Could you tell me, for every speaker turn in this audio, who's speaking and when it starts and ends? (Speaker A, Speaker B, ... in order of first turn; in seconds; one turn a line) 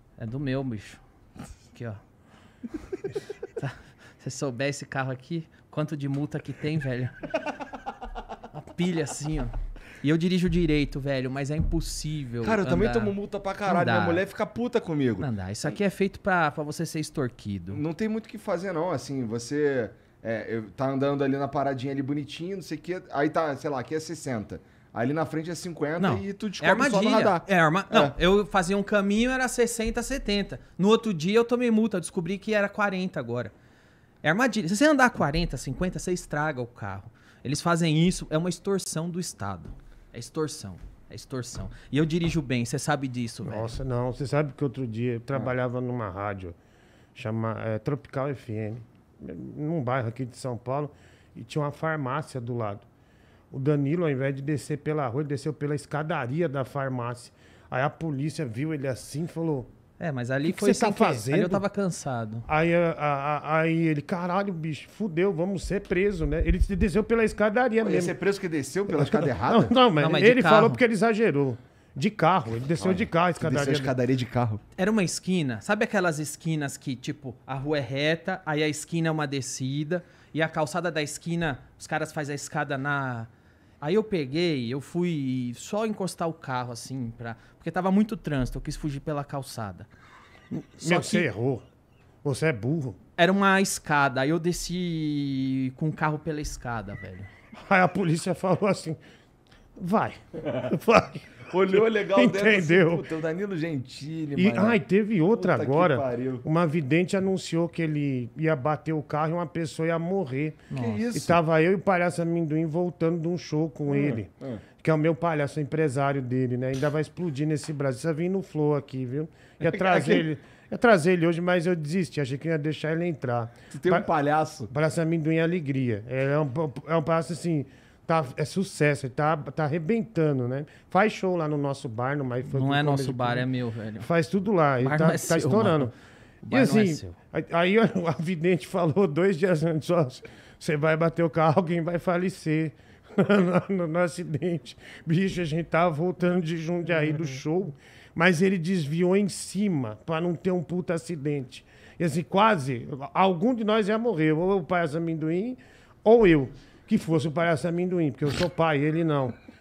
Speaker A: 0.2-1.0
Speaker A: 1.7-2.0
Speaker A: 3.0-7.3
Speaker A: 8.5-14.2
Speaker B: 12.4-15.3
Speaker A: 15.2-17.8
Speaker B: 17.7-28.1
Speaker A: 26.0-33.5
Speaker A: 34.2-43.8
Speaker C: 43.4-46.5
Speaker C: 47.1-52.8
Speaker C: 53.5-59.7
Speaker A: 60.0-62.4
Speaker C: 60.4-61.6
Speaker C: 62.5-68.1
Speaker B: 67.8-69.7
Speaker C: 68.9-74.0
Speaker A: 70.0-70.8
Speaker B: 72.8-74.6
Speaker A: 74.8-83.3
Speaker A: 83.8-89.9
Speaker C: 90.5-91.6
Speaker A: 90.8-91.3
Speaker C: 92.2-93.0
Speaker A: 93.2-97.3
Speaker C: 97.6-99.0
Speaker C: 99.8-103.0
Speaker B: 101.5-104.8
Speaker C: 104.3-124.1
Speaker B: 105.3-106.4
Speaker A: 110.7-111.0
Speaker B: 110.7-111.4
Speaker B: 113.9-114.6
Speaker B: 119.6-120.2
Speaker B: 123.7-124.7
Speaker C: 124.7-133.5
Speaker A: 132.4-134.1
Speaker C: 134.0-135.9
Speaker A: 134.8-137.2
Speaker C: 136.5-159.3